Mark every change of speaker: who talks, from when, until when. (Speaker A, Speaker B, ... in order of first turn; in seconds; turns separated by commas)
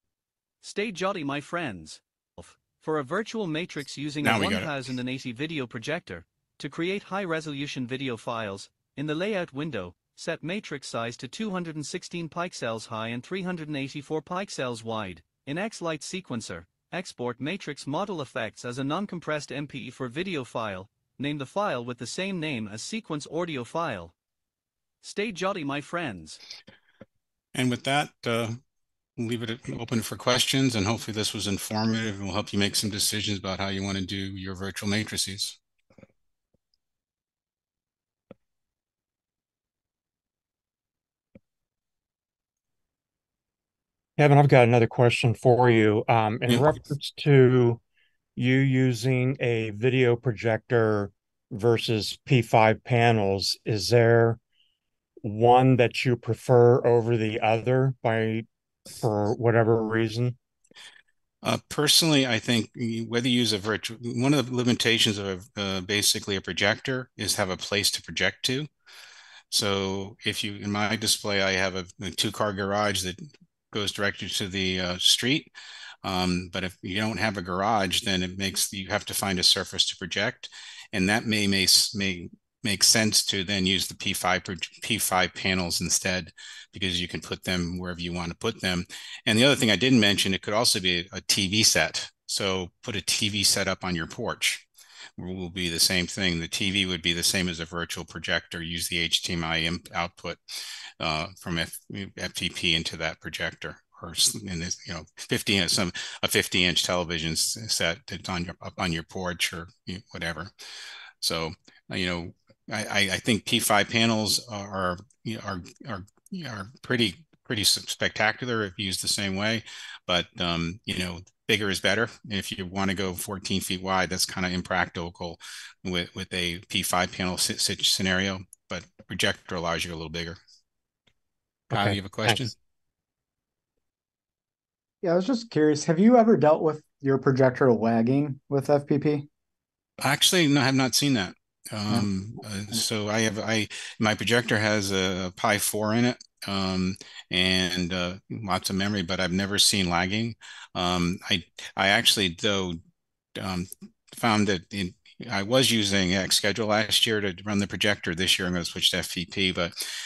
Speaker A: 0.6-24.1, Speaker B: 4.2-4.7, Speaker A: 25.0-26.4, Speaker B: 27.5-28.6, Speaker B: 29.2-35.6, Speaker C: 44.2-47.8, Speaker C: 48.4-54.4, Speaker C: 55.2-58.5, Speaker C: 59.0-60.4, Speaker B: 61.4-68.7, Speaker B: 69.5-75.5, Speaker B: 76.0-94.6, Speaker B: 95.2-100.4, Speaker B: 101.0-110.5, Speaker B: 111.2-130.4, Speaker C: 131.7-132.4, Speaker B: 131.7-132.5, Speaker D: 135.0-139.3, Speaker B: 140.0-152.8, Speaker B: 153.3-159.7